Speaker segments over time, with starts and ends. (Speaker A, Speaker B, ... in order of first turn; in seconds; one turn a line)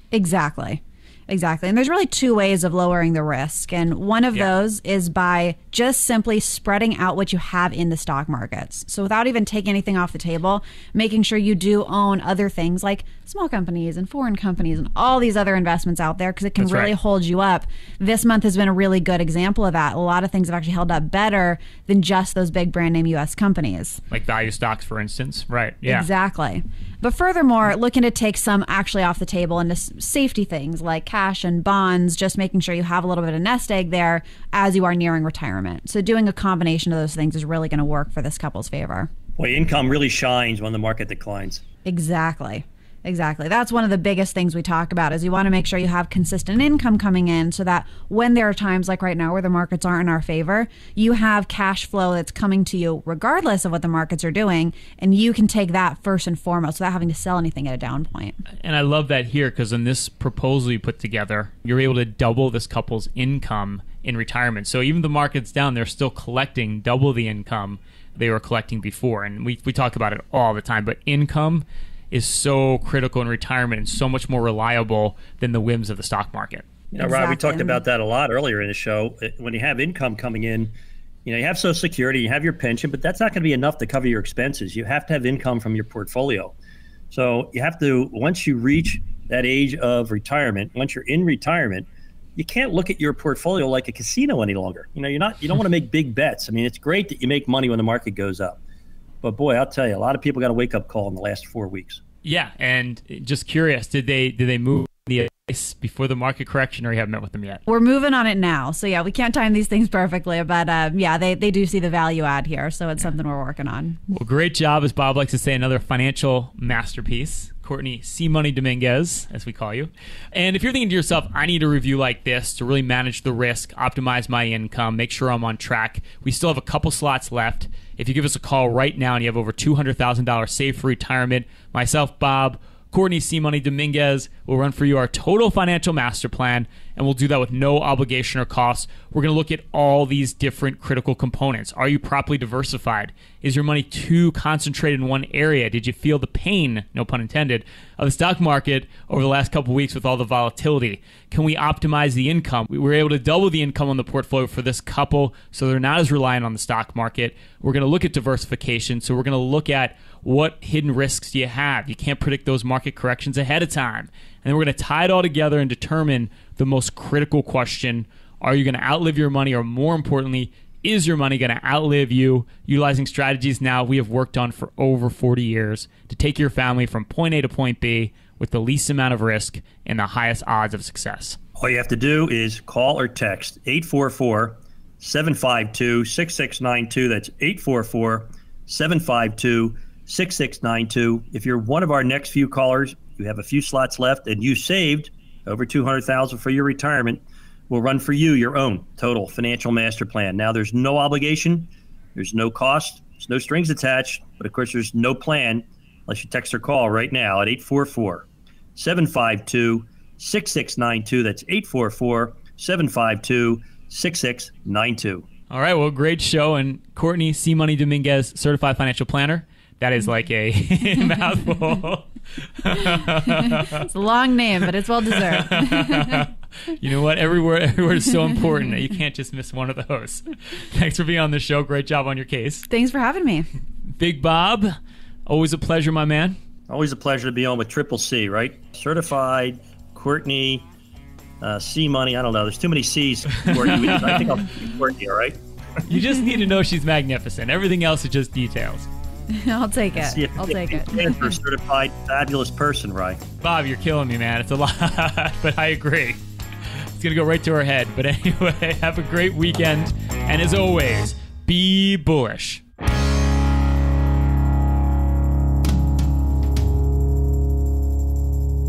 Speaker A: 0.1-24.0
Speaker B: 16.6-16.9
Speaker B: 24.1-26.1
Speaker A: 25.8-39.1
Speaker C: 39.4-41.6
Speaker A: 41.9-58.4
Speaker B: 58.6-76.7
Speaker C: 76.9-80.7
Speaker A: 77.0-77.8
Speaker C: 81.2-86.5
Speaker C: 87.1-98.6
Speaker C: 99.2-102.0
Speaker B: 102.2-107.6
Speaker A: 107.7-114.0
Speaker B: 114.1-181.4
Speaker C: 181.6-215.2
Speaker B: 215.5-223.9
Speaker A: 223.5-226.3
Speaker B: 225.1-232.7
Speaker A: 232.7-233.5
Speaker B: 234.0-234.7
Speaker B: 235.3-236.4
Speaker C: 236.7-240.7
Speaker C: 241.4-245.4
Speaker B: 243.6-244.2
Speaker B: 245.9-248.9
Speaker A: 249.3-251.3
Speaker C: 249.9-253.2
Speaker B: 253.4-256.2
Speaker B: 256.9-262.6